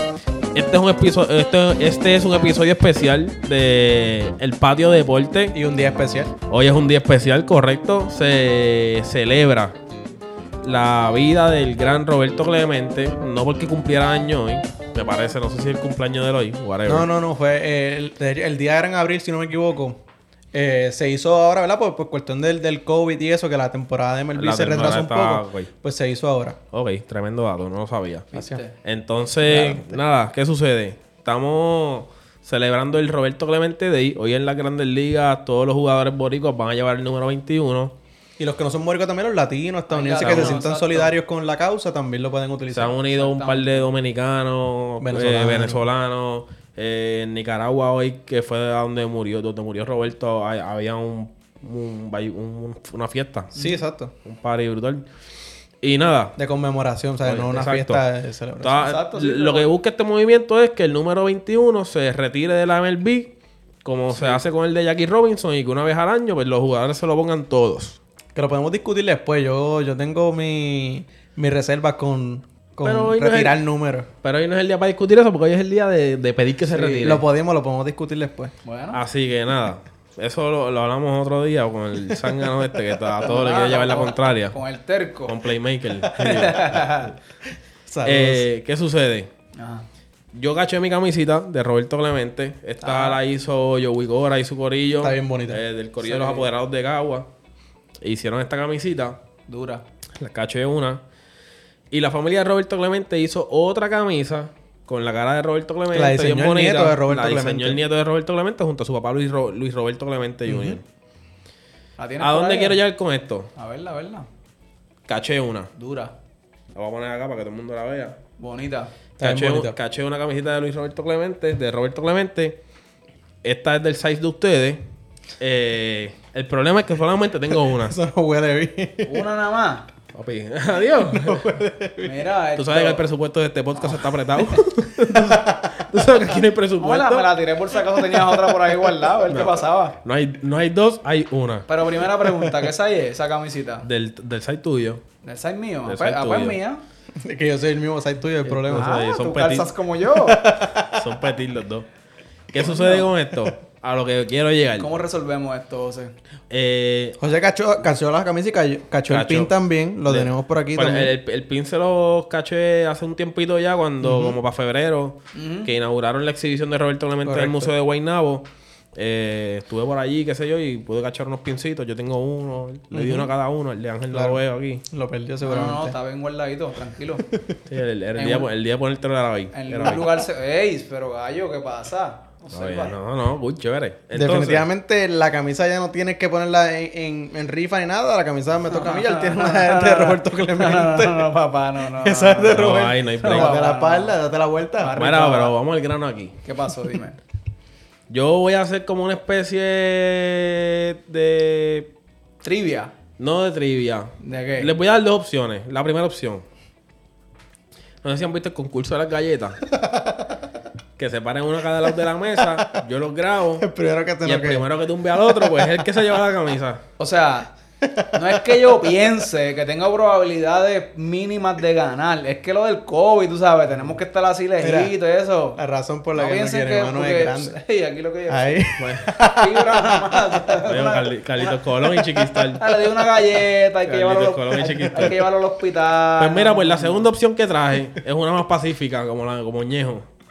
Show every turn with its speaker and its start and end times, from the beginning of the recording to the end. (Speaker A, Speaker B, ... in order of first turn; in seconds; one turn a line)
Speaker A: 0.5-5.5
Speaker B: 5.5-6.3
Speaker A: 6.5-9.8
Speaker A: 10.6-17.1
Speaker B: 16.9-20.0
Speaker B: 20.5-26.6
Speaker A: 24.4-25.7
Speaker A: 26.7-28.3
Speaker C: 28.3-28.7
Speaker B: 28.3-28.6
Speaker A: 28.8-38.0
Speaker B: 29.4-30.0
Speaker B: 38.4-43.0
Speaker C: 39.9-41.1
Speaker A: 40.2-40.6
Speaker A: 42.7-53.5
Speaker C: 43.1-43.9
Speaker B: 45.0-45.8
Speaker B: 53.5-54.1
Speaker A: 54.2-55.1
Speaker A: 55.8-56.4
Speaker B: 56.4-58.9
Speaker A: 57.2-58.0
Speaker A: 58.6-63.3
Speaker C: 58.8-59.7
Speaker A: 63.8-68.0
Speaker B: 68.3-74.1
Speaker A: 72.8-73.6
Speaker A: 74.2-77.2
Speaker C: 76.7-77.2
Speaker B: 77.0-78.5
Speaker C: 78.6-79.0
Speaker A: 78.9-84.6
Speaker C: 83.2-85.4
Speaker A: 85.3-87.0
Speaker C: 86.1-87.1
Speaker B: 87.9-88.5
Speaker A: 88.0-89.3
Speaker C: 89.6-89.9
Speaker A: 90.3-97.3
Speaker C: 92.8-93.2
Speaker B: 95.0-95.6
Speaker C: 96.0-96.5
Speaker A: 98.0-99.2
Speaker C: 99.5-99.8
Speaker A: 100.2-101.0
Speaker A: 101.9-110.8
Speaker B: 105.9-107.8
Speaker B: 110.5-110.8
Speaker C: 112.0-112.8
Speaker A: 112.2-113.5
Speaker C: 113.6-114.3
Speaker A: 115.1-115.7
Speaker C: 115.8-116.1
Speaker A: 116.7-118.2
Speaker C: 118.4-118.9
Speaker B: 119.2-119.8
Speaker A: 119.2-122.6
Speaker A: 123.4-124.8
Speaker A: 125.4-128.0
Speaker B: 127.5-129.2
Speaker C: 129.0-129.9
Speaker A: 130.1-131.5
Speaker B: 131.0-132.2
Speaker C: 132.0-133.0
Speaker A: 132.6-137.3
Speaker C: 133.8-134.6
Speaker B: 135.1-135.9
Speaker C: 136.8-140.0
Speaker A: 139.3-141.7
Speaker C: 141.7-143.9
Speaker A: 143.8-145.0
Speaker C: 145.2-146.8
Speaker A: 145.8-146.6
Speaker B: 147.2-149.0
Speaker A: 148.5-149.7
Speaker C: 148.7-150.5
Speaker B: 150.1-151.2
Speaker A: 150.8-151.9
Speaker A: 152.5-154.9
Speaker C: 152.6-153.0
Speaker C: 154.8-156.1
Speaker A: 156.5-157.2
Speaker B: 157.2-161.1
Speaker A: 159.1-159.5
Speaker A: 160.1-174.8
Speaker B: 164.0-164.4
Speaker C: 165.3-165.7
Speaker B: 167.2-167.7
Speaker B: 172.9-173.3
Speaker B: 174.1-176.0
Speaker C: 175.4-177.3
Speaker B: 177.2-177.6
Speaker A: 177.7-180.1
Speaker C: 178.2-178.5
Speaker C: 179.5-183.0
Speaker A: 182.5-184.7
Speaker B: 184.1-191.3
Speaker C: 188.7-194.2
Speaker B: 191.9-195.0
Speaker A: 192.5-193.6
Speaker C: 194.8-195.5
Speaker A: 195.0-196.4
Speaker C: 196.4-197.2
Speaker A: 198.1-201.9
Speaker C: 202.4-202.9
Speaker A: 203.2-206.4
Speaker C: 204.2-204.7
Speaker A: 208.0-209.6
Speaker B: 209.7-210.4
Speaker A: 211.0-213.7
Speaker B: 213.6-216.0
Speaker A: 214.2-216.8
Speaker C: 217.0-217.5
Speaker B: 217.8-218.9
Speaker C: 218.1-225.6
Speaker B: 224.6-224.9
Speaker B: 225.6-227.6
Speaker C: 226.2-228.7
Speaker B: 228.3-230.5
Speaker A: 228.8-229.1
Speaker C: 229.2-231.6
Speaker A: 230.7-232.8
Speaker C: 232.5-237.1
Speaker A: 233.8-235.3
Speaker A: 236.2-240.1